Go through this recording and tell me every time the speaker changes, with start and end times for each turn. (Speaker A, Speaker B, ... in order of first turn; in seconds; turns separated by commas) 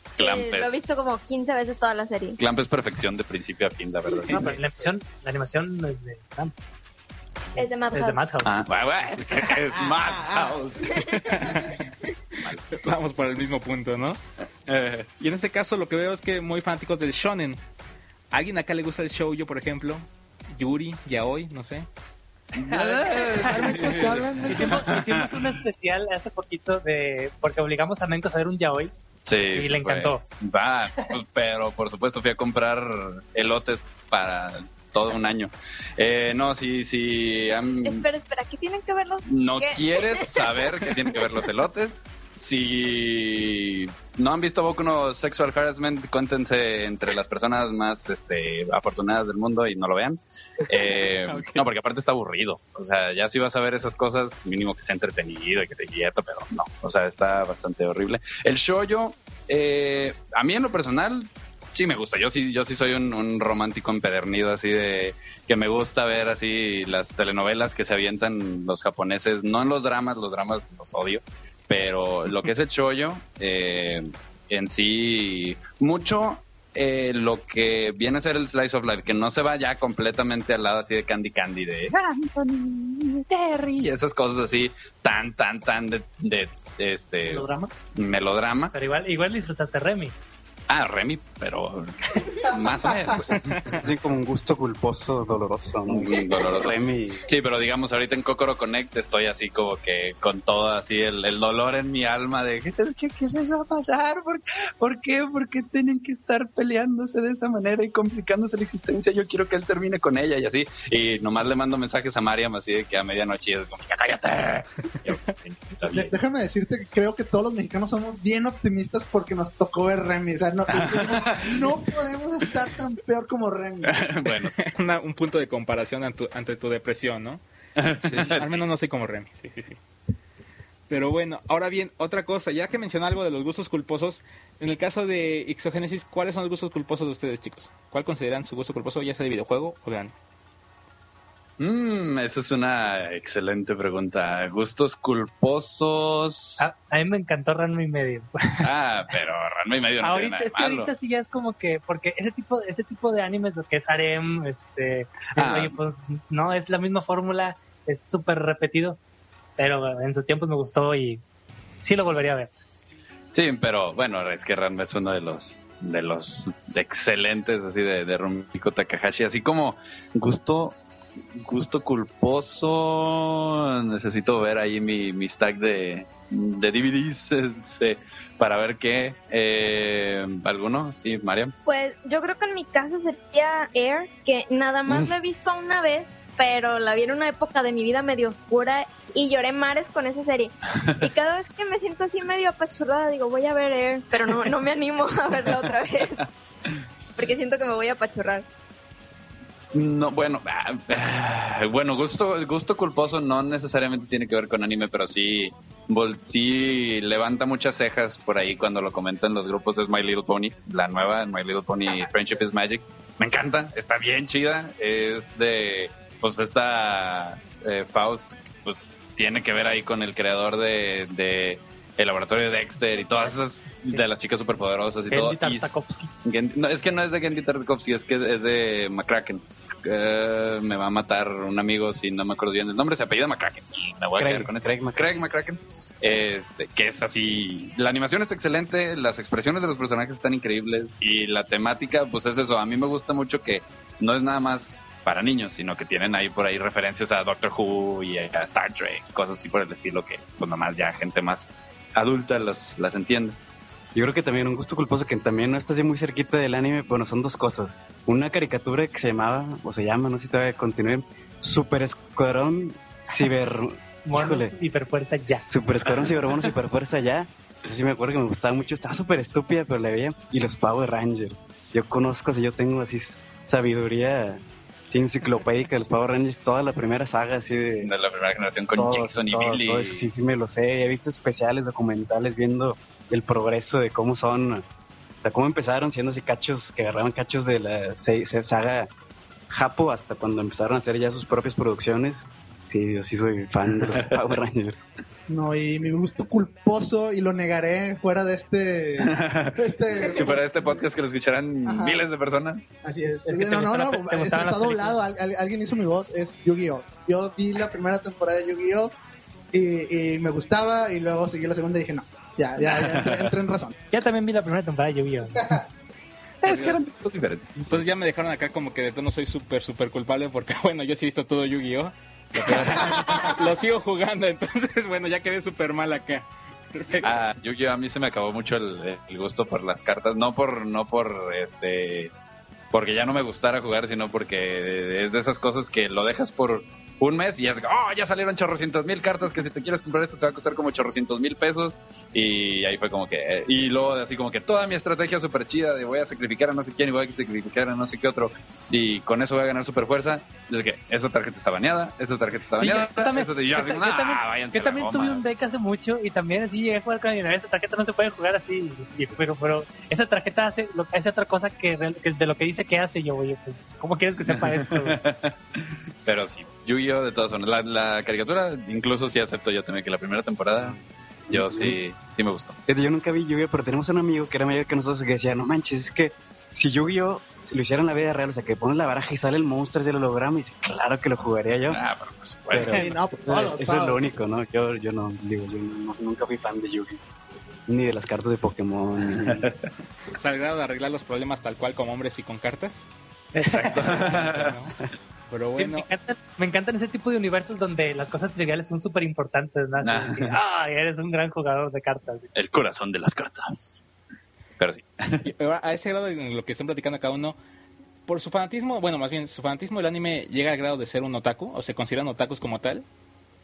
Speaker A: 0.2-0.9, Speaker B: 0.2-2.4, Speaker A: 2.4-4.5, Speaker C: 4.3-6.5, Speaker C: 7.5-8.6, Speaker B: 7.6-8.4, Speaker A: 8.4-11.7, Speaker B: 10.9-11.4, Speaker D: 11.4-11.8, Speaker A: 12.4-13.1, Speaker D: 12.8-14.2, Speaker A: 14.7-15.1, Speaker D: 15.2-17.6, Speaker D: 18.3-21.9, Speaker A: 22.5-25.3, Speaker E: 22.7-24.9, Speaker C: 22.9-28.9, Speaker A: 29.2-38.2, Speaker C: 29.5-30.2, Speaker B: 37.8-41.2, Speaker A: 39.3-88.7, Speaker D: 50.7-51.7, Speaker E: 87.2-87.7, Speaker C: 88.7-90.1, Speaker A: 90.7-93.7, Speaker E: 92.4-93.2, Speaker D: 93.3-93.8, Speaker F: 93.5-97.2, Speaker A: 95.9-116.1, Speaker E: 115.9-123.9, Speaker A: 120.7-121.7, Speaker A: 123.8-124.5, Speaker D: 124.3-127.4, Speaker A: 127.8-128.6, Speaker D: 128.1-129.8, Speaker D: 130.9-140.1, Speaker A: 141.6-146.7, Speaker C: 146.6-148.7, Speaker A: 148.6-150.9, Speaker C: 150.0-159.0, Speaker A: 155.3-155.8, Speaker C: 159.6-161.2, Speaker C: 161.8-162.5, Speaker A: 163.3-170.8, Speaker A: 171.4-181.5, Speaker B: 181.7-196.3, Speaker B: 197.2-198.5, Speaker A: 199.7-253.4, Speaker C: 225.1-226.1, Speaker F: 234.2-235.2, Speaker F: 253.9-264.6, Speaker C: 264.1-265.4, Speaker F: 265.3-277.9, Speaker A: 277.8-280.1, Speaker F: 278.8-284.6, Speaker F: 285.2-288.9, Speaker F: 289.5-294.8, Speaker E: 295.3-300.9, Speaker A: 299.0-302.6, Speaker E: 301.6-302.1, Speaker E: 302.8-308.9, Speaker C: 303.2-305.0, Speaker E: 309.5-313.8, Speaker A: 312.7-313.3, Speaker C: 313.9-315.5, Speaker E: 315.4-315.6, Speaker A: 316.4-317.6, Speaker D: 316.5-316.9, Speaker D: 317.6-327.2, Speaker A: 322.4-323.0, Speaker A: 327.0-332.1, Speaker A: 332.7-355.2, Speaker C: 352.6-365.0, Speaker A: 364.3-370.8, Speaker F: 371.3-371.8, Speaker A: 371.3-372.6, Speaker F: 372.7-381.8, Speaker A: 381.7-382.8, Speaker F: 382.5-387.0, Speaker E: 382.6-384.1, Speaker F: 387.7-389.5, Speaker A: 389.2-389.6, Speaker D: 390.1-392.9, Speaker A: 393.4-394.6, Speaker D: 393.5-394.7, Speaker D: 395.3-395.9, Speaker C: 395.6-402.3, Speaker A: 399.8-400.4, Speaker A: 402.4-403.8, Speaker A: 404.6-405.3, Speaker D: 405.2-407.4, Speaker D: 408.1-412.9